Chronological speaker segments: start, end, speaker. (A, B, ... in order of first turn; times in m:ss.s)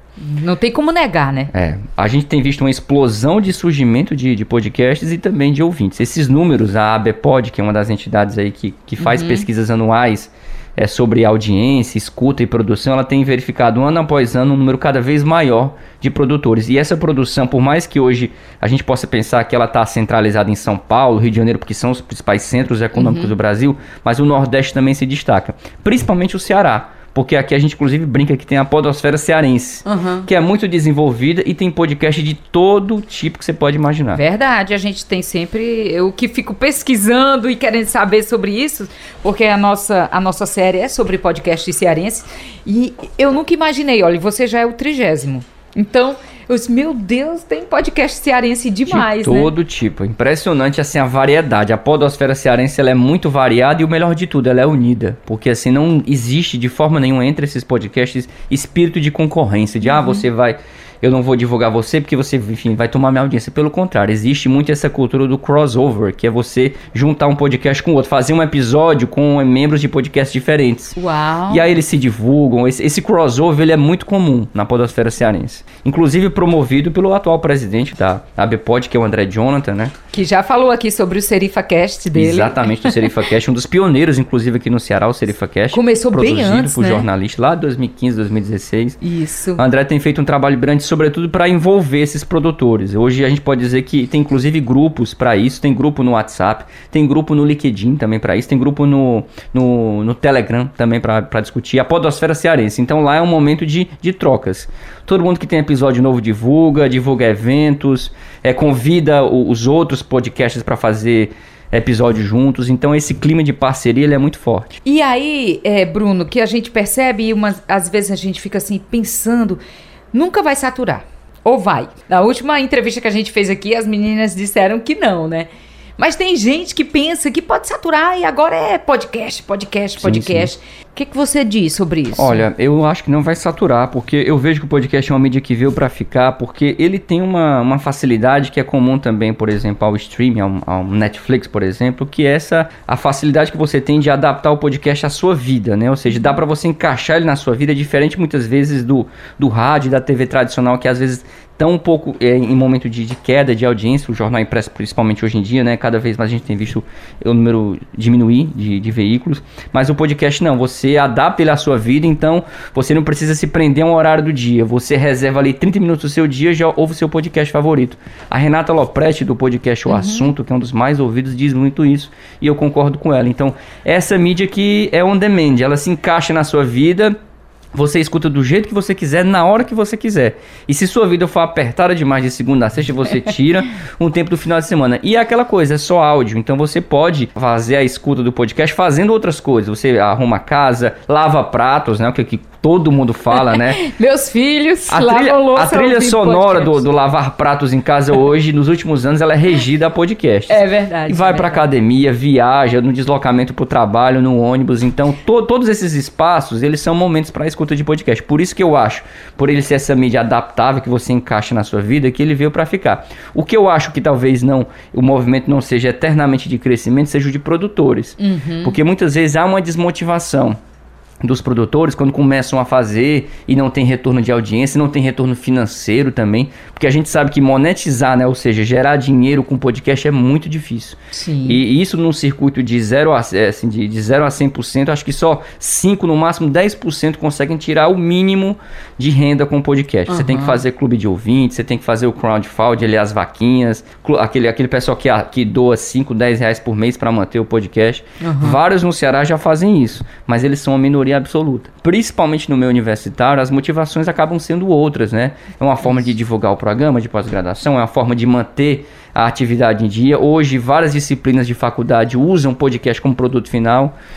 0:00.2-0:01.5 A
0:01.5-0:34.2 B
0:09.0-0:09.5 A
0:23.0-0:23.3 A
0:29.8-0:30.3 A
0:34.2-0:49.5 A
0:48.9-1:11.0 B
0:59.9-1:00.2 A
1:11.0-1:11.7 A
1:11.5-1:20.0 B
1:20.1-1:23.1 A
1:22.1-1:29.0 B
1:25.7-1:27.1 A
1:29.0-1:29.6 A
1:29.6-1:54.8 B
1:54.8-1:59.6 A
2:00.1-2:12.4 A
2:10.0-2:10.5 B
2:12.2-2:57.2 B
2:49.9-2:50.3 A
2:57.7-3:13.8 B
3:13.3-3:16.9 A
3:14.9-3:40.6 B
3:20.5-3:21.7 A
3:38.2-3:38.8 A
3:41.2-4:24.0 B
3:51.1-3:51.6 A
4:00.1-4:00.6 A
4:08.2-4:08.6 A